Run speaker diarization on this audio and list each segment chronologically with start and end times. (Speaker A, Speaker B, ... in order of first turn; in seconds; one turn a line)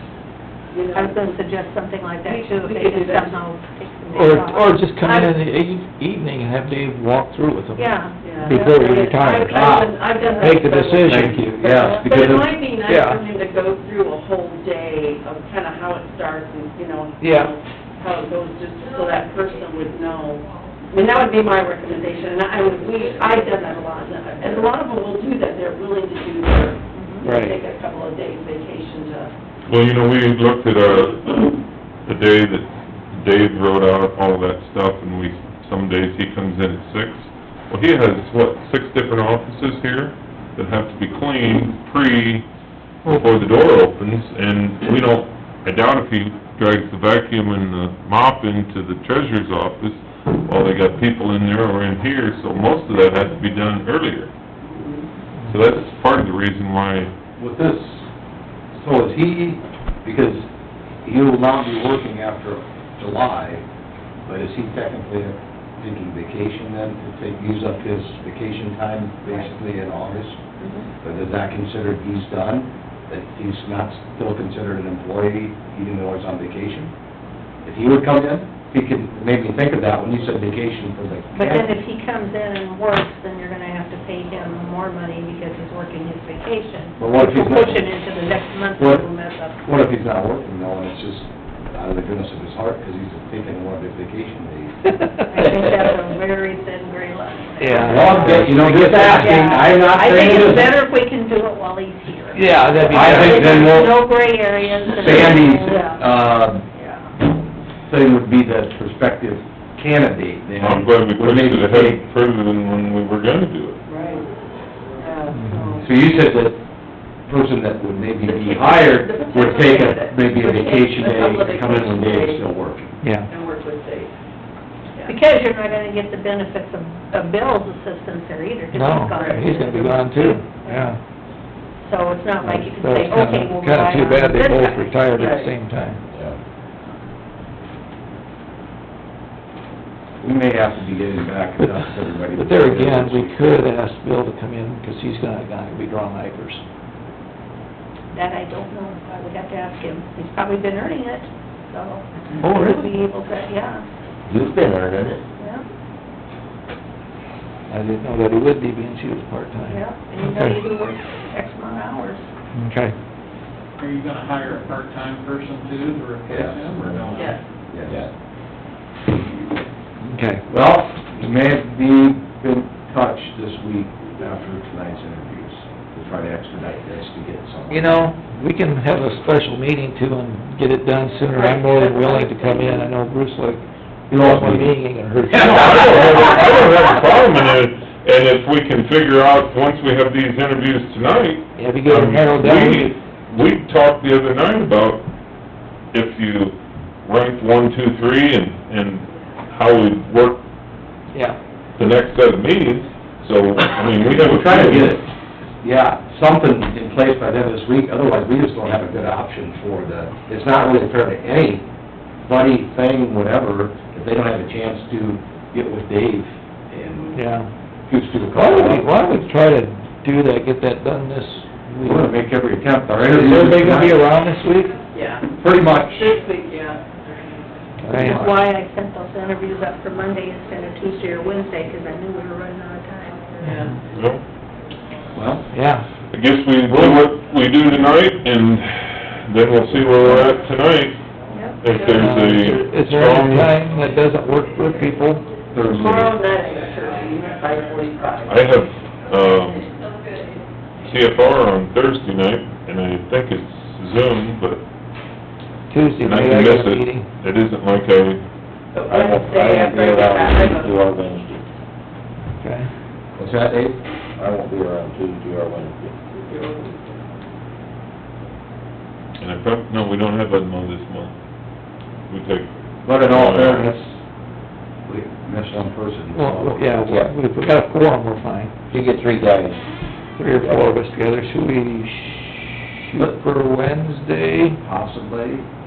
Speaker A: 0.7-1.4
Speaker B: 0.9-4.8
Speaker A: 2.2-3.4
Speaker C: 4.1-9.7
Speaker A: 5.0-5.3
Speaker B: 7.8-8.8
Speaker A: 8.2-29.3
Speaker D: 9.4-10.0
Speaker B: 10.2-10.5
Speaker C: 10.4-11.5
Speaker D: 11.1-12.5
Speaker C: 12.8-13.2
Speaker C: 17.2-17.5
Speaker B: 26.9-27.2
Speaker C: 27.2-27.6
Speaker E: 29.6-42.5
Speaker E: 43.0-54.3
Speaker A: 54.6-55.1
Speaker E: 55.5-57.1
Speaker D: 57.4-58.1
Speaker D: 58.7-60.5
Speaker D: 61.0-63.6
Speaker D: 64.3-70.4
Speaker B: 70.6-70.9
Speaker D: 71.0-76.9
Speaker D: 77.7-81.7
Speaker B: 81.3-89.8
Speaker D: 87.0-87.9
Speaker D: 88.8-89.1
Speaker D: 89.7-94.8
Speaker C: 95.0-95.5
Speaker B: 95.3-106.2
Speaker C: 97.6-99.0
Speaker D: 97.8-100.8
Speaker C: 102.3-103.9
Speaker D: 102.8-104.1
Speaker D: 104.8-106.6
Speaker B: 106.7-107.1
Speaker D: 107.8-112.0
Speaker E: 110.6-113.8
Speaker A: 113.9-114.3
Speaker A: 115.0-115.9
Speaker C: 115.3-115.6
Speaker D: 115.8-116.6
Speaker D: 117.3-122.9
Speaker A: 118.2-122.4
Speaker C: 123.0-123.3
Speaker A: 123.3-124.1
Speaker B: 125.1-130.4
Speaker C: 128.7-131.0
Speaker A: 129.2-129.5
Speaker B: 131.8-135.2
Speaker C: 132.4-136.0
Speaker A: 135.2-135.5
Speaker D: 140.2-143.5
Speaker C: 141.6-146.6
Speaker B: 148.1-153.8
Speaker C: 152.4-152.9
Speaker F: 154.3-155.2
Speaker B: 155.4-155.7
Speaker C: 157.7-160.6
Speaker B: 159.7-162.3
Speaker C: 162.5-162.9
Speaker G: 163.8-167.4
Speaker D: 166.3-166.8
Speaker F: 166.7-167.2
Speaker A: 167.1-167.4
Speaker D: 167.7-168.1
Speaker C: 170.0-170.4
Speaker D: 170.5-178.0
Speaker C: 177.7-186.0
Speaker A: 181.3-182.9
Speaker D: 184.1-184.7
Speaker E: 185.3-195.1
Speaker D: 185.4-185.8
Speaker C: 191.6-193.0
Speaker E: 195.9-200.4
Speaker C: 201.1-201.4
Speaker E: 201.8-205.0
Speaker D: 204.1-205.1
Speaker D: 205.6-211.7
Speaker D: 212.2-217.2
Speaker C: 217.2-217.5
Speaker D: 217.9-218.9
Speaker C: 218.3-222.1
Speaker D: 221.8-224.0
Speaker C: 223.1-224.8
Speaker A: 224.9-226.9
Speaker D: 225.4-226.0
Speaker C: 227.8-228.3
Speaker D: 227.9-228.4
Speaker B: 227.9-233.3
Speaker A: 233.4-233.8
Speaker E: 233.9-234.2
Speaker D: 235.1-235.5
Speaker C: 235.5-235.8
Speaker E: 236.1-241.0
Speaker D: 236.7-237.1
Speaker B: 241.3-241.6
Speaker E: 241.6-243.6
Speaker A: 241.7-242.1
Speaker C: 241.9-245.2
Speaker G: 244.8-245.3
Speaker D: 245.5-246.1
Speaker A: 245.6-248.3
Speaker G: 246.5-247.8
Speaker E: 248.3-249.7
Speaker E: 250.8-254.7
Speaker C: 255.7-257.1
Speaker E: 256.0-258.2
Speaker A: 258.7-260.8
Speaker F: 258.9-261.5
Speaker C: 262.4-262.7
Speaker D: 263.2-263.8
Speaker F: 264.2-265.9
Speaker A: 266.1-267.0
Speaker E: 269.2-271.1
Speaker E: 272.1-273.7
Speaker D: 272.9-274.0
Speaker D: 274.9-276.7
Speaker C: 276.1-278.5
Speaker F: 276.8-277.1
Speaker F: 278.7-279.7
Speaker C: 280.2-284.6
Speaker F: 280.3-280.8
Speaker D: 284.6-285.4